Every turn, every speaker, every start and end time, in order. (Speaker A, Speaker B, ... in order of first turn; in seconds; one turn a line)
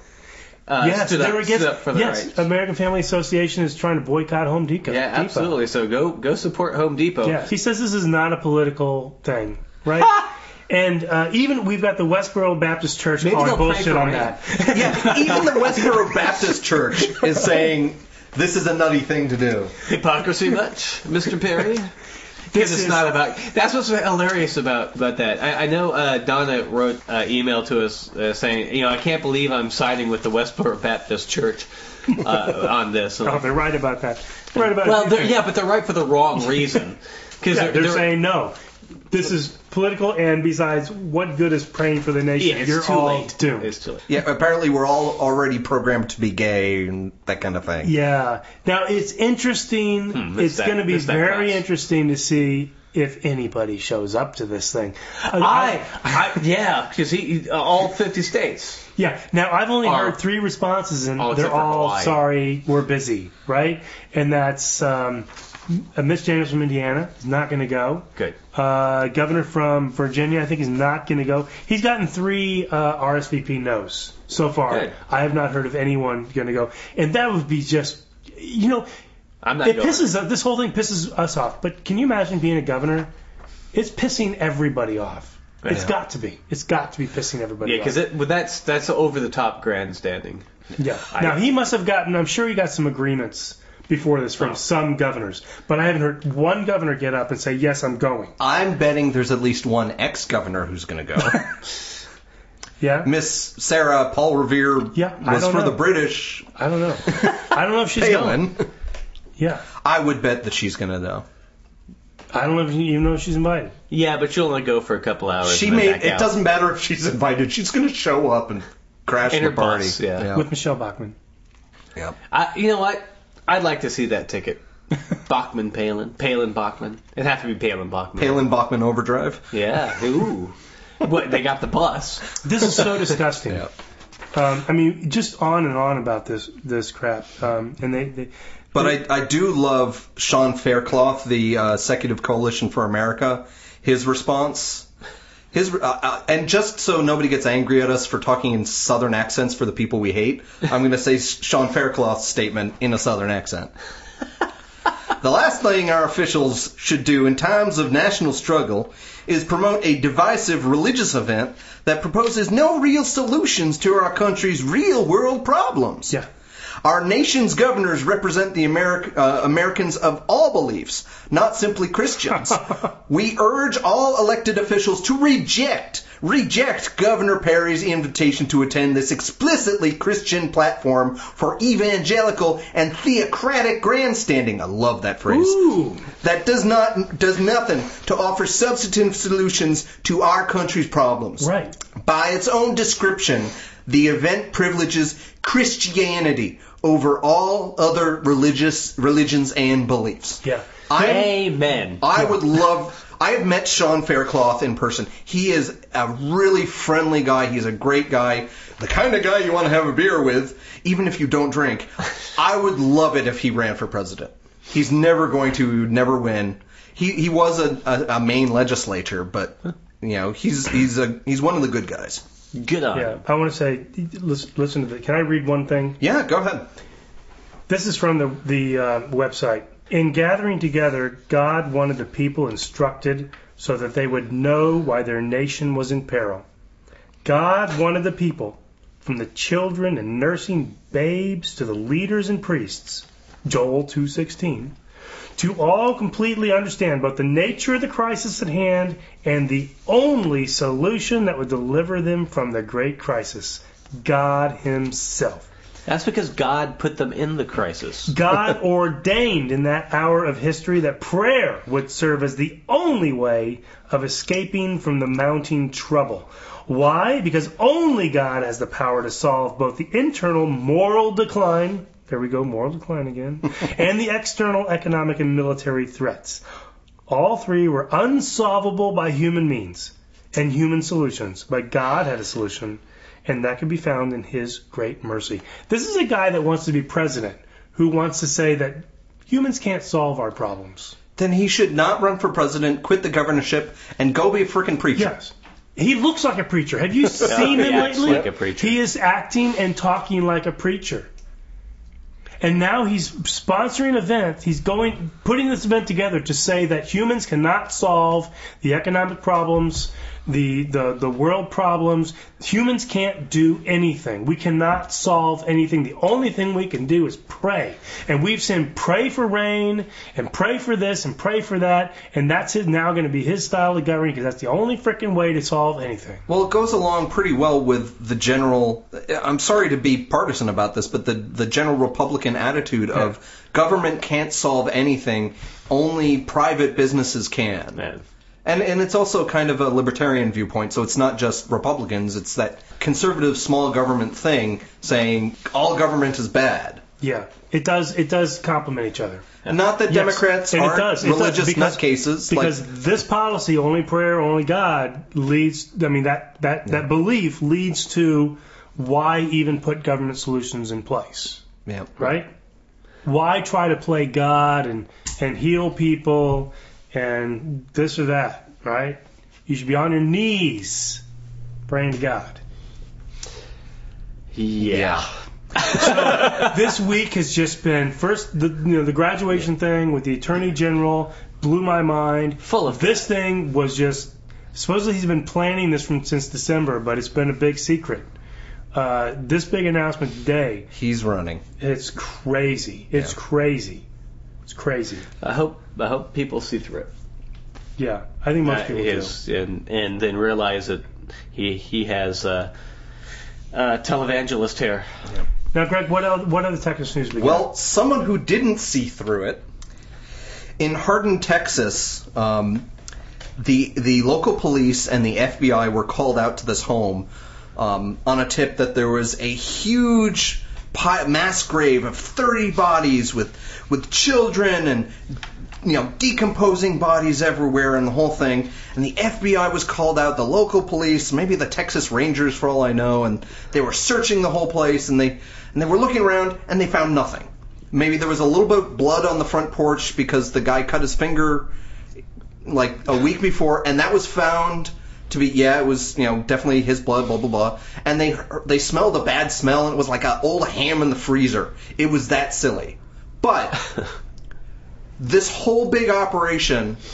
Speaker A: 0.7-2.4
Speaker B: 0.8-5.5
Speaker A: 4.9-7.5
Speaker B: 7.2-15.4
Speaker A: 13.2-16.0
Speaker C: 14.7-19.7
Speaker A: 19.9-21.9
Speaker B: 22.5-23.0
Speaker A: 22.5-33.5
Speaker B: 33.2-35.4
Speaker A: 34.6-38.1
Speaker B: 37.5-38.6
Speaker B: 39.1-43.7
Speaker A: 42.4-44.0
Speaker C: 44.1-47.9
Speaker B: 47.8-56.4
Speaker A: 50.1-51.6
Speaker A: 55.2-58.8
Speaker B: 59.0-78.9
Speaker A: 59.8-60.2
Speaker A: 61.2-62.2
Speaker A: 74.7-75.0
Speaker A: 79.4-80.1
Speaker B: 79.6-83.1
Speaker B: 83.7-88.0
Speaker A: 87.6-90.5
Speaker B: 90.8-98.3
Speaker A: 91.1-91.4
Speaker C: 98.4-101.4
Speaker B: 102.8-103.1
Speaker C: 103.0-106.5
Speaker B: 104.9-105.8
Speaker B: 106.5-108.5
Speaker C: 107.1-108.7
Speaker B: 109.4-109.7
Speaker C: 109.8-111.2
Speaker B: 112.3-113.7
Speaker A: 113.9-116.3
Speaker C: 115.5-120.5
Speaker A: 119.3-120.3
Speaker B: 120.3-121.2
Speaker A: 122.3-124.6
Speaker A: 125.2-128.4
Speaker C: 128.2-129.5
Speaker A: 129.5-132.3
Speaker B: 132.4-133.7
Speaker B: 134.3-139.0
Speaker C: 138.7-144.9
Speaker C: 145.5-153.7
Speaker C: 155.2-166.2
Speaker C: 166.8-191.5
Speaker B: 185.3-186.0
Speaker B: 191.4-191.8
Speaker C: 192.0-201.4
Speaker A: 200.9-202.0
Speaker C: 202.0-222.2
Speaker A: 222.5-223.2
Speaker B: 222.9-226.0
Speaker C: 226.0-226.7
Speaker B: 227.7-236.4
Speaker B: 237.2-244.8
Speaker B: 245.4-255.5
Speaker A: 255.9-258.1
Speaker B: 258.1-276.4
Speaker B: 277.1-290.9
Speaker C: 291.2-295.1
Speaker B: 294.9-301.1
Speaker A: 297.2-298.8
Speaker B: 302.4-326.2
Speaker C: 326.3-337.8
Speaker A: 337.8-338.0
Speaker C: 338.4-346.8
Speaker B: 347.0-349.3
Speaker C: 349.5-352.6
Speaker B: 349.9-361.4
Speaker C: 361.7-362.1
Speaker B: 362.0-362.3
Speaker B: 363.1-371.0
Speaker B: 371.7-372.4
Speaker A: 374.3-376.5
Speaker C: 374.6-375.1
Speaker B: 375.6-388.1
Speaker A: 382.4-383.1
Speaker B: 388.7-390.7
Speaker C: 390.7-391.4
Speaker B: 391.6-393.8
Speaker B: 394.5-395.1
Speaker A: 395.2-396.9
Speaker B: 397.8-399.1
Speaker A: 398.4-402.5
Speaker A: 403.5-404.9
Speaker B: 405.5-407.5
Speaker C: 407.2-409.4
Speaker C: 410.6-412.7
Speaker C: 413.4-441.5
Speaker C: 442.4-453.7
Speaker C: 455.0-456.8